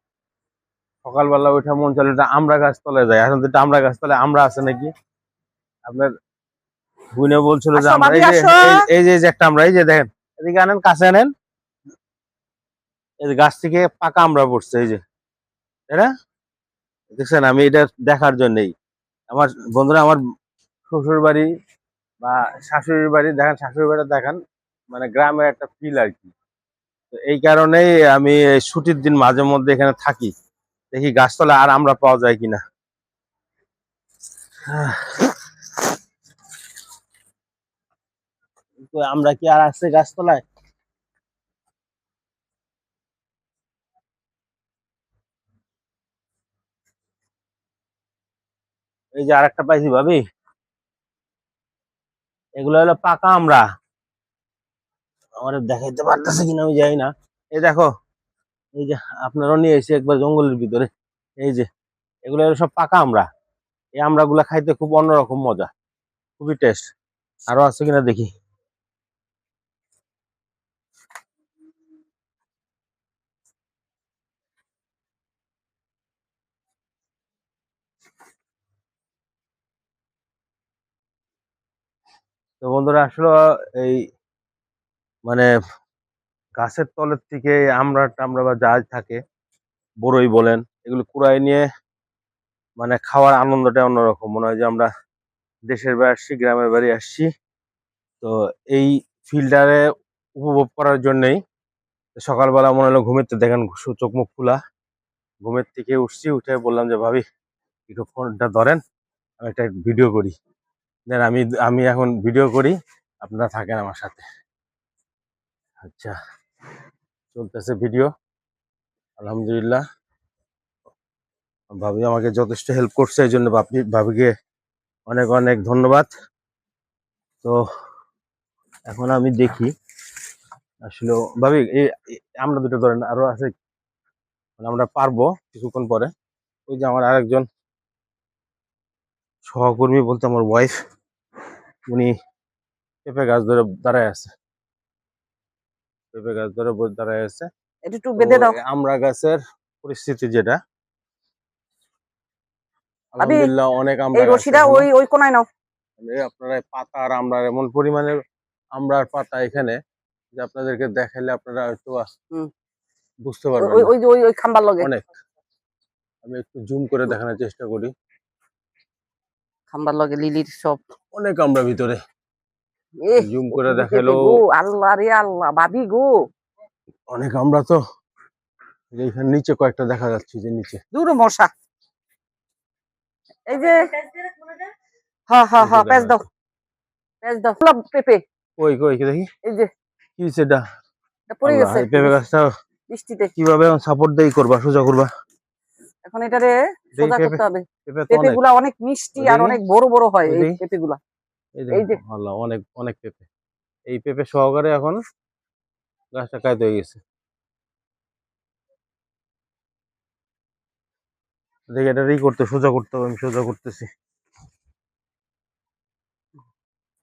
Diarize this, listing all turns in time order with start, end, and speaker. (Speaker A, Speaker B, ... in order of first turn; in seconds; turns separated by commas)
Speaker A: 1.0-4.9, Speaker A: 7.2-11.3, Speaker B: 7.8-8.8, Speaker A: 13.2-15.0, Speaker A: 17.1-18.7, Speaker A: 19.3-20.2, Speaker A: 20.9-21.5, Speaker A: 22.2-24.4, Speaker A: 24.9-26.3, Speaker A: 27.1-30.3, Speaker A: 30.9-32.6, Speaker A: 34.7-35.3, Speaker A: 38.9-40.4, Speaker A: 49.1-50.2, Speaker A: 52.6-53.6, Speaker A: 55.4-57.9, Speaker A: 58.8-60.9, Speaker A: 61.4-61.7, Speaker A: 62.2-63.2, Speaker A: 64.0-65.7, Speaker A: 66.4-66.9, Speaker A: 67.5-68.3, Speaker A: 82.6-84.0, Speaker A: 86.6-89.2, Speaker A: 90.0-91.6, Speaker A: 92.8-94.9, Speaker A: 95.7-97.3, Speaker A: 98.2-99.8, Speaker A: 100.4-101.4, Speaker A: 102.2-104.6, Speaker A: 105.4-107.2, Speaker A: 107.9-108.8, Speaker A: 109.4-110.3, Speaker A: 111.1-114.2, Speaker A: 115.8-116.1, Speaker A: 117.3-118.1, Speaker A: 119.2-119.8, Speaker A: 121.8-124.3, Speaker A: 125.1-126.1, Speaker A: 128.9-129.7, Speaker A: 130.9-133.5, Speaker A: 134.6-136.1, Speaker A: 136.7-137.4, Speaker A: 139.5-140.8, Speaker A: 143.0-144.3, Speaker A: 146.1-147.5, Speaker B: 147.9-148.5, Speaker A: 148.2-150.6, Speaker A: 153.1-154.9, Speaker B: 154.2-155.4, Speaker A: 156.0-158.1, Speaker A: 158.8-159.8, Speaker A: 160.3-162.0, Speaker A: 163.2-163.9, Speaker B: 163.6-164.9, Speaker A: 164.8-165.1, Speaker A: 166.2-167.9, Speaker B: 169.7-170.8, Speaker A: 171.1-172.0, Speaker B: 173.0-176.1, Speaker A: 173.2-174.4, Speaker A: 177.1-177.8, Speaker A: 178.9-180.8, Speaker B: 180.9-181.5, Speaker B: 183.5-184.5, Speaker B: 185.3-186.2, Speaker A: 185.6-186.2, Speaker B: 187.2-188.2, Speaker A: 188.6-189.2, Speaker B: 189.4-189.7, Speaker A: 190.2-190.6, Speaker B: 191.3-192.1, Speaker A: 191.4-192.4, Speaker B: 192.9-193.3, Speaker A: 193.3-195.1, Speaker B: 196.1-201.0, Speaker A: 197.0-198.4, Speaker A: 199.2-199.6, Speaker A: 200.3-200.6, Speaker A: 201.6-203.3, Speaker B: 201.7-202.0, Speaker A: 203.9-205.0, Speaker A: 206.1-207.0, Speaker A: 211.7-213.9